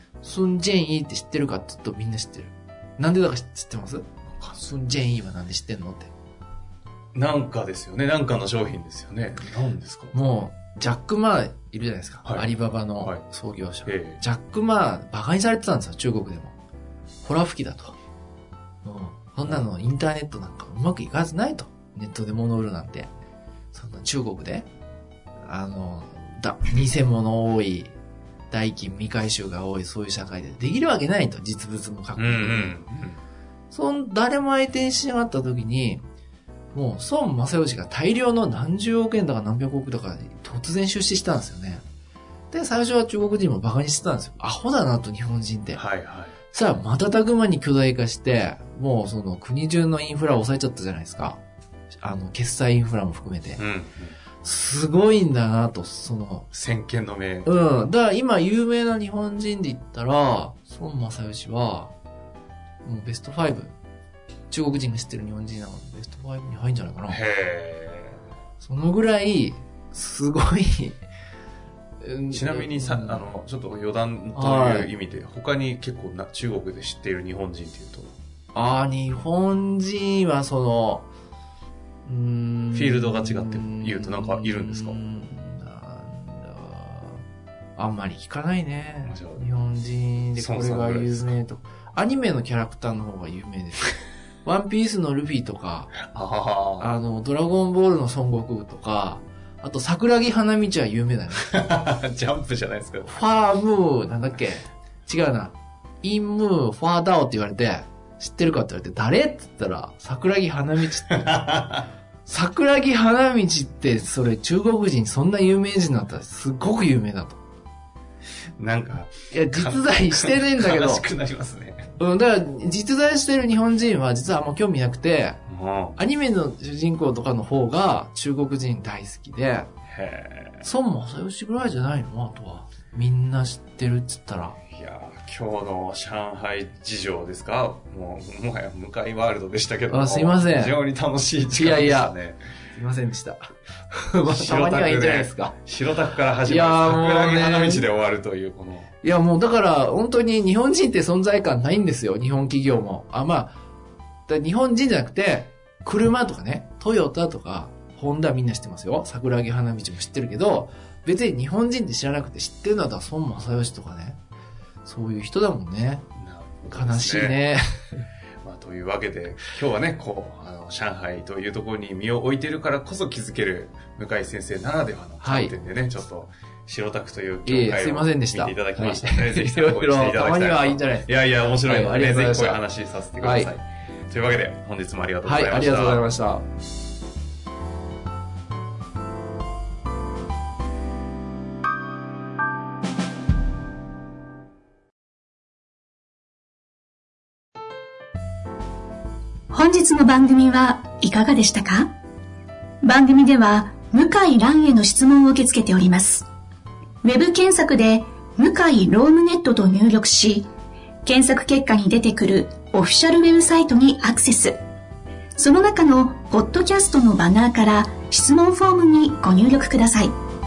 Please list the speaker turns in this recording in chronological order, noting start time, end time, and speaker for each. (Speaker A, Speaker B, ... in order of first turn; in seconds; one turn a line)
Speaker A: 0.2-6.1
Speaker B: 4.4-4.7
Speaker B: 7.2-10.2
Speaker A: 10.1-16.6
Speaker B: 12.2-13.2
Speaker B: 13.9-14.2
Speaker A: 17.2-18.0
Speaker A: 18.8-23.1
Speaker A: 23.7-24.7
Speaker A: 25.5-27.9
Speaker A: 28.5-32.8
Speaker B: 32.2-33.2
Speaker A: 33.7-36.0
Speaker A: 36.7-41.8
Speaker A: 42.5-45.8
Speaker B: 45.8-46.4
Speaker A: 46.5-51.4
Speaker A: 52.0-53.6
Speaker B: 53.6-54.2
Speaker A: 54.4-56.5
Speaker B: 56.5-57.5
Speaker A: 57.5-61.9
Speaker A: 62.8-63.7
Speaker A: 64.5-67.2
Speaker B: 67.1-68.2
Speaker A: 68.6-71.0
Speaker A: 72.0-73.2
Speaker B: 72.3-78.2
Speaker A: 74.3-74.9
Speaker A: 78.5-81.1
Speaker A: 82.0-87.2
Speaker B: 82.7-85.0
Speaker A: 87.8-95.9
Speaker B: 89.0-89.5
Speaker B: 90.4-91.3
Speaker B: 95.9-96.9
Speaker A: 96.8-101.6
Speaker B: 101.3-103.2
Speaker A: 103.0-111.4
Speaker B: 111.1-111.9
Speaker A: 112.3-117.4
Speaker B: 118.6-121.9
Speaker A: 119.3-121.1
Speaker A: 122.0-125.4
Speaker B: 125.5-126.0
Speaker A: 126.0-129.7
Speaker B: 129.9-130.7
Speaker A: 130.6-134.6
Speaker B: 134.7-142.4
Speaker A: 139.9-140.8
Speaker A: 141.5-142.2
Speaker A: 142.7-145.6
Speaker B: 144.2-148.9
Speaker A: 146.4-147.9
Speaker A: 149.0-153.6
Speaker A: 154.3-164.2
Speaker A: 164.8-166.1
Speaker B: 166.2-167.4
Speaker A: 166.7-167.6
Speaker B: 168.4-186.1
Speaker A: 175.2-175.5
Speaker A: 177.5-182.6
Speaker A: 183.2-183.5
Speaker A: 185.2-186.5
Speaker C: 199.5-201.9
Speaker C: 202.8-206.3
Speaker C: 207.0-210.5
Speaker C: 211.1-214.6
Speaker C: 215.4-220.2